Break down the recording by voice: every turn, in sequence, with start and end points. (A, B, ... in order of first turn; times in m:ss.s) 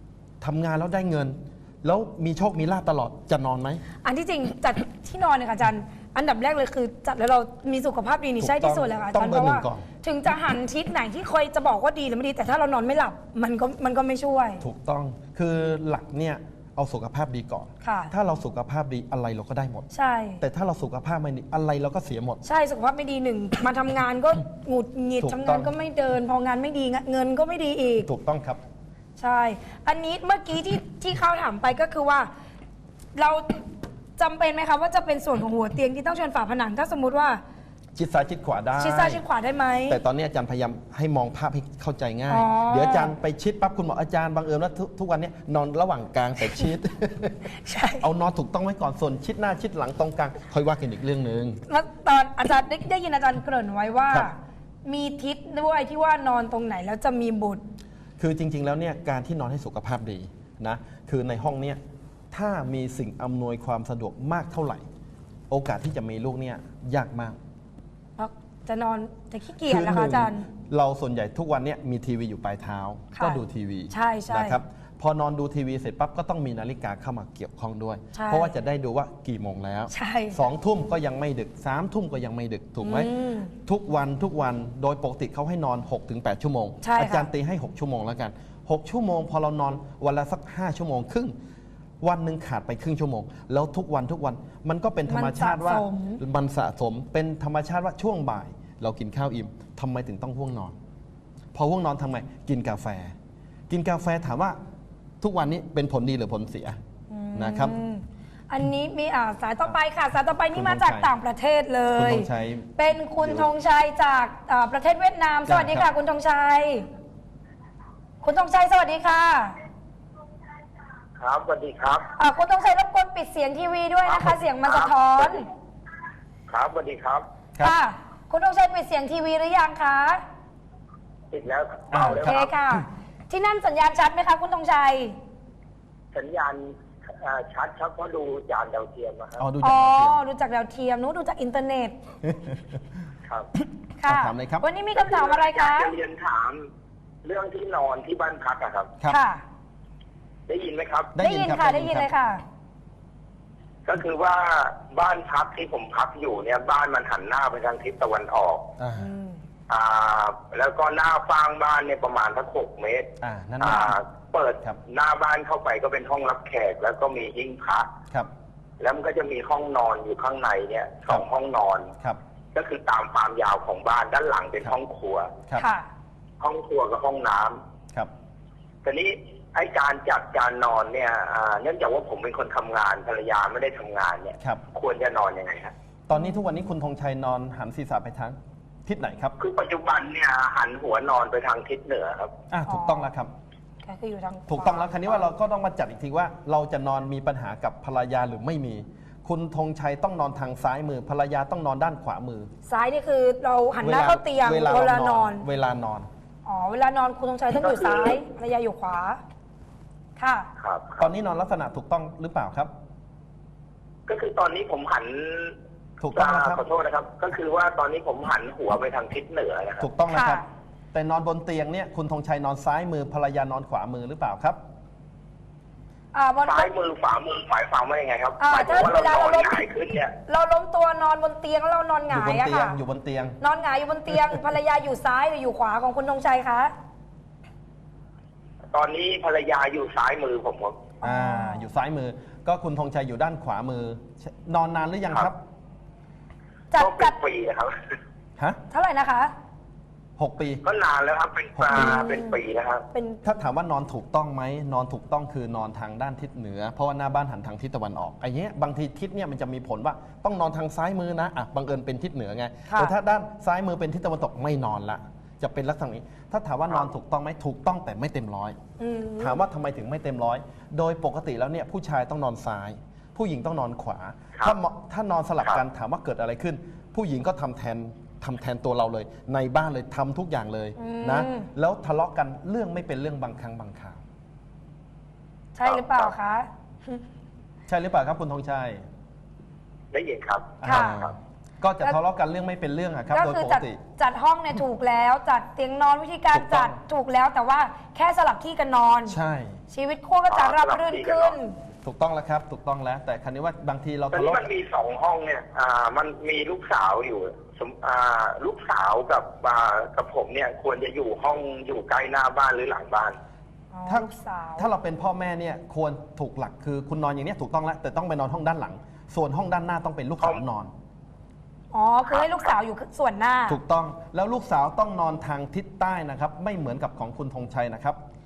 0:00.4-0:03.8 A
0:04.0-0:14.6 B
0:08.4-0:09.8 A
0:14.6-0:19.9 A
0:17.8-0:18.1 B
0:19.9-0:20.4 B
0:20.4-0:22.4 A
0:22.4-0:28.1 B
0:25.2-0:25.7 A
0:28.0-0:28.6 A
0:29.2-0:32.3 B
0:33.2-0:33.6 B
0:34.2-0:37.4 B
0:38.0-0:39.2 A
0:38.8-0:40.0 B
0:39.9-0:51.6 A
0:42.3-0:43.1 B
0:47.6-0:48.0 B
0:51.7-0:57.6 B
0:58.2-1:01.8 A
1:02.3-1:04.8 A
1:05.5-1:07.4 A
1:08.2-1:10.5 B
1:09.6-1:23.1 A
1:13.1-1:13.4 B
1:13.9-1:14.6 B
1:18.1-1:18.5 B
1:19.9-1:20.4 B
1:22.8-1:23.5 B
1:23.6-1:31.3 A
1:26.8-1:27.3 B
1:32.0-1:40.7 A
1:35.1-1:36.2 B
1:41.5-1:43.1 A
1:43.7-1:44.6 A
1:45.2-1:46.8 A
1:47.1-1:56.8 B
1:47.3-1:47.8 A
1:50.5-1:51.1 A
1:51.9-1:53.5 A
1:55.5-1:55.9 A
1:58.2-1:59.5 B
2:01.2-2:02.1 C
2:02.2-2:05.5 B
2:04.1-2:05.4 C
2:06.5-2:07.2 C
2:07.6-2:10.2 B
2:11.3-2:12.5 C
2:11.9-2:12.5 A
2:12.0-2:15.1 B
2:16.1-2:19.4 C
2:19.4-2:20.2 A
2:19.6-2:22.0 B
2:22.2-2:22.6 A
2:24.0-2:25.9 B
2:24.0-2:24.7 A
2:25.0-2:26.7 C
2:27.2-2:28.9 C
2:29.0-2:29.4 B
2:30.5-2:31.1 C
2:31.1-2:32.1 A
2:31.2-2:32.4 B
2:33.8-2:38.6 C
2:38.8-2:39.1 A
2:39.0-2:39.4 B
2:39.7-2:43.1 C
2:43.2-2:44.0 A
2:43.6-2:47.9 C
2:48.8-2:51.9 C
2:52.5-2:55.3 C
2:55.5-2:55.9 B
2:56.4-2:57.6 C
2:58.8-3:05.7 C
3:04.4-3:04.6 A
3:06.1-3:09.3 A
3:09.4-3:12.3 C
3:12.5-3:13.3 A
3:12.7-3:13.1 B
3:13.8-3:15.1 B
3:14.5-3:22.5 A
3:22.6-3:25.4 B
3:23.8-3:26.1 A
3:26.4-3:29.2 B
3:27.5-3:28.2 C
3:30.2-3:30.5 B
3:30.6-3:31.1 C
3:31.0-3:32.7 A
3:34.1-3:35.6 C
3:36.0-3:36.6 A
3:36.1-3:39.9 C
3:39.8-3:44.6 A
3:40.1-3:40.4 B
3:46.1-3:46.7 B
3:46.4-3:50.1 C
3:48.4-3:49.7 B
3:50.2-3:52.8 B
3:52.1-3:53.4 A
3:53.4-3:56.7 B
3:58.7-4:00.8 C
4:01.0-4:01.6 B
4:01.0-4:05.4 A
4:06.7-4:07.2 B
4:06.8-4:07.7 C
4:08.7-4:09.3 B
4:10.2-4:10.6 A
4:10.6-4:12.8 C
4:11.6-4:12.1 A
4:11.7-4:12.4 B
4:12.9-4:13.2 B
4:13.2-4:28.6 A
4:22.7-4:22.9 B
4:28.8-4:29.4 B
4:29.2-4:44.0 A
4:40.8-4:41.5 B
4:45.5-4:47.0 B
4:45.6-4:46.1 C
4:47.7-4:48.8 A
4:49.9-4:51.1 C
4:50.6-4:53.8 A
4:50.6-4:51.0 B
4:53.1-4:59.2 B
4:56.3-4:56.8 A
4:59.1-4:59.6 A
4:59.7-5:01.5 B
5:00.3-5:01.4 C
5:01.8-5:04.5 A
5:04.1-5:13.2 C
5:13.7-5:14.7 B
5:13.8-5:20.7 A
5:21.7-5:23.6 B
5:22.0-5:22.5 C
5:23.5-5:28.0 A